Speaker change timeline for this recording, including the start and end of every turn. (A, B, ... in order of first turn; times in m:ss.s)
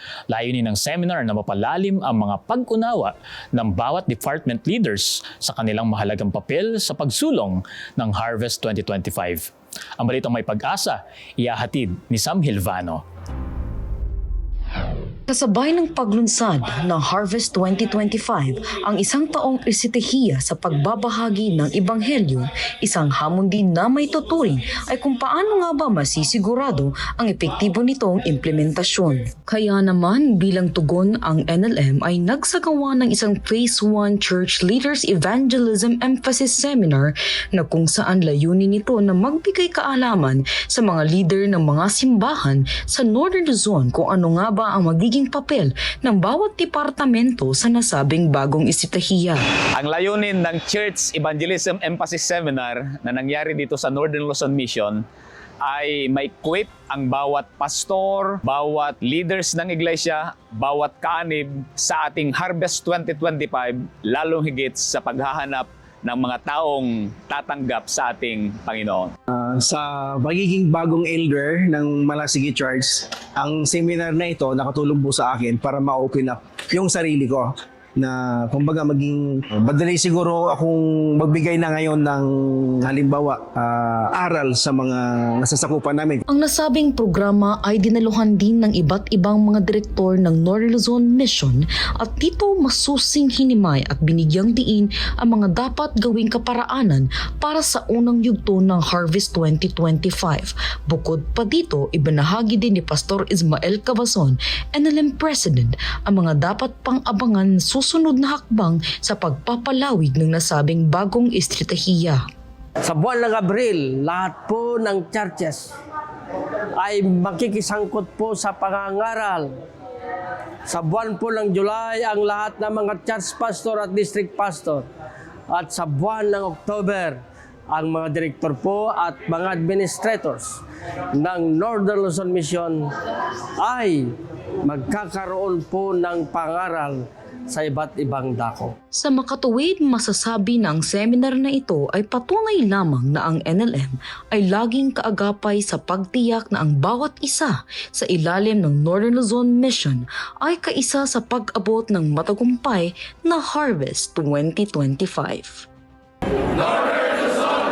0:00.3-0:09.4 A
0:10.0-0:13.0 A
0:15.3-0:49.4 B
0:49.8-0:55.0 C
0:55.6-1:09.1 C
1:09.3-1:26.2 D
1:26.3-1:52.2 B
1:52.8-1:55.7 E
1:56.8-1:59.5 E
2:00.7-2:04.9 E
2:05.5-2:10.6 E
2:11.1-2:12.9 E
2:13.6-2:14.1 E
2:14.6-2:18.7 E
2:19.0-2:35.7 B